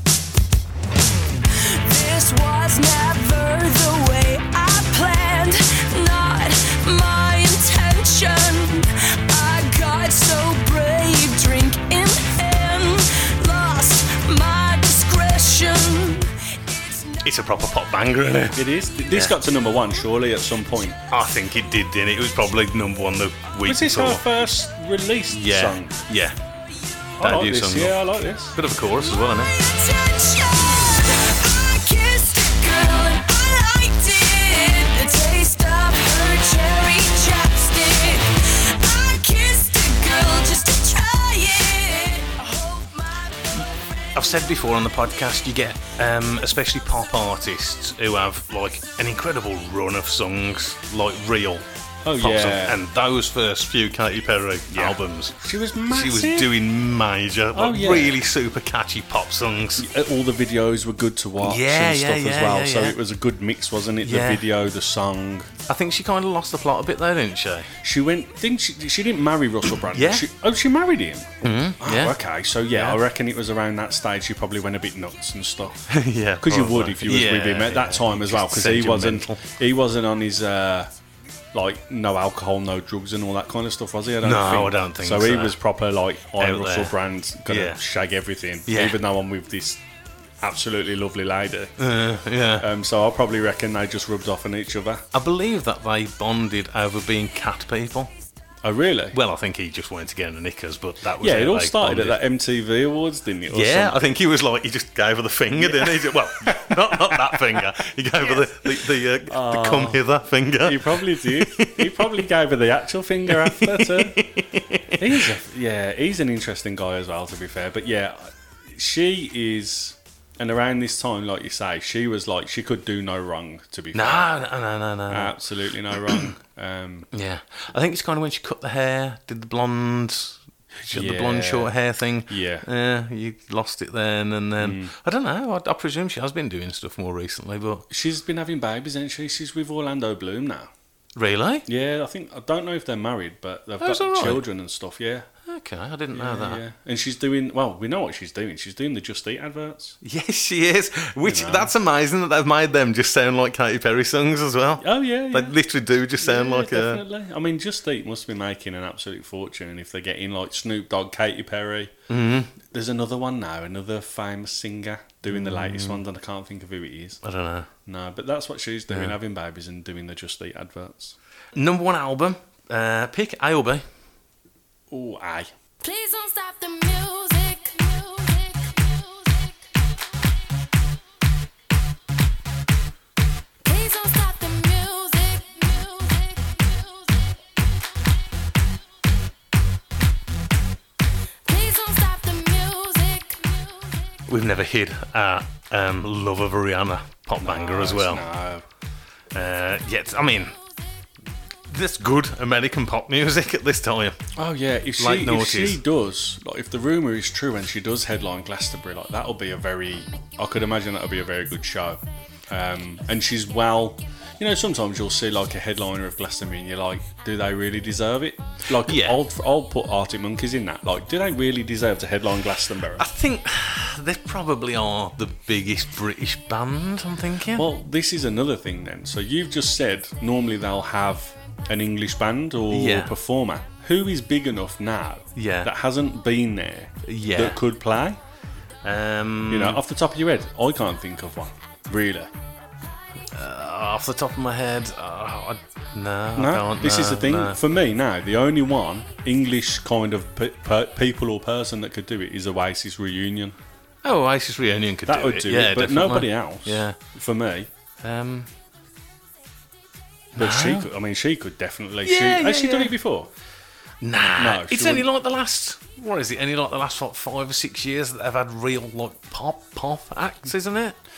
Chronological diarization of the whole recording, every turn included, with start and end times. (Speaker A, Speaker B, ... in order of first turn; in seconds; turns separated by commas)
Speaker A: 1.5-17.2, Speaker B: 17.2-19.4, Speaker C: 18.6-21.0, Speaker B: 21.1-24.4, Speaker C: 23.6-26.0, Speaker B: 25.3-26.4, Speaker C: 27.2-28.6, Speaker B: 27.2-28.0, Speaker B: 28.5-29.6, Speaker A: 29.0-43.9, Speaker B: 44.1-51.7, Speaker C: 52.0-52.8, Speaker B: 52.2-59.9, Speaker C: 54.7-56.5, Speaker C: 57.5-58.2, Speaker C: 59.8-65.5, Speaker B: 61.4-63.0, Speaker B: 64.0-64.5, Speaker B: 65.7-67.7, Speaker C: 67.8-75.9, Speaker B: 69.8-70.3, Speaker B: 71.4-72.2, Speaker B: 72.7-73.0, Speaker B: 75.9-79.4, Speaker C: 76.4-80.9, Speaker C: 81.5-89.8, Speaker B: 84.2-85.6, Speaker B: 86.4-87.8, Speaker B: 88.7-89.0, Speaker C: 90.4-91.8, Speaker B: 91.8-92.7, Speaker C: 92.6-95.1, Speaker B: 95.1-98.1, Speaker C: 98.6-99.2, Speaker B: 99.1-102.2, Speaker C: 101.2-104.0, Speaker B: 103.5-112.2, Speaker C: 105.6-107.7, Speaker C: 109.3-110.0, Speaker C: 110.6-114.2, Speaker B: 113.3-115.3, Speaker C: 115.0-124.3, Speaker B: 123.9-125.4, Speaker C: 125.1-127.1, Speaker B: 125.9-126.3, Speaker B: 127.1-137.8, Speaker C: 130.9-131.7, Speaker C: 132.3-132.7, Speaker C: 134.6-134.9, Speaker C: 137.9-140.7, Speaker B: 141.2-141.7, Speaker C: 141.7-145.3, Speaker B: 143.8-144.4, Speaker B: 145.5-146.6, Speaker C: 146.1-150.0, Speaker B: 150.0-157.0, Speaker C: 151.2-151.7, Speaker C: 154.8-155.6, Speaker C: 156.2-161.9, Speaker B: 162.1-162.5, Speaker C: 162.7-167.2, Speaker B: 165.3-166.0, Speaker B: 167.2-167.7, Speaker C: 167.9-171.2, Speaker B: 168.9-169.2, Speaker B: 171.6-173.9, Speaker C: 174.9-175.5, Speaker A: 175.8-179.6, Speaker A: 183.6-186.8, Speaker A: 191.4-193.9, Speaker B: 194.3-198.3, Speaker C: 197.4-198.7, Speaker B: 199.3-200.6, Speaker B: 201.7-204.2, Speaker C: 204.4-223.1, Speaker B: 205.0-205.8, Speaker B: 218.7-219.2, Speaker B: 223.0-227.7, Speaker C: 227.5-238.2, Speaker B: 232.7-233.2, Speaker B: 235.3-235.7, Speaker B: 237.0-237.6, Speaker B: 238.8-239.8, Speaker C: 239.5-242.3, Speaker B: 243.3-247.6, Speaker C: 246.3-253.6, Speaker B: 254.0-257.0, Speaker C: 255.1-257.7, Speaker B: 258.0-258.5, Speaker B: 260.3-260.9, Speaker C: 260.4-263.3, Speaker B: 262.0-263.0, Speaker B: 264.0-271.0, Speaker C: 264.4-265.1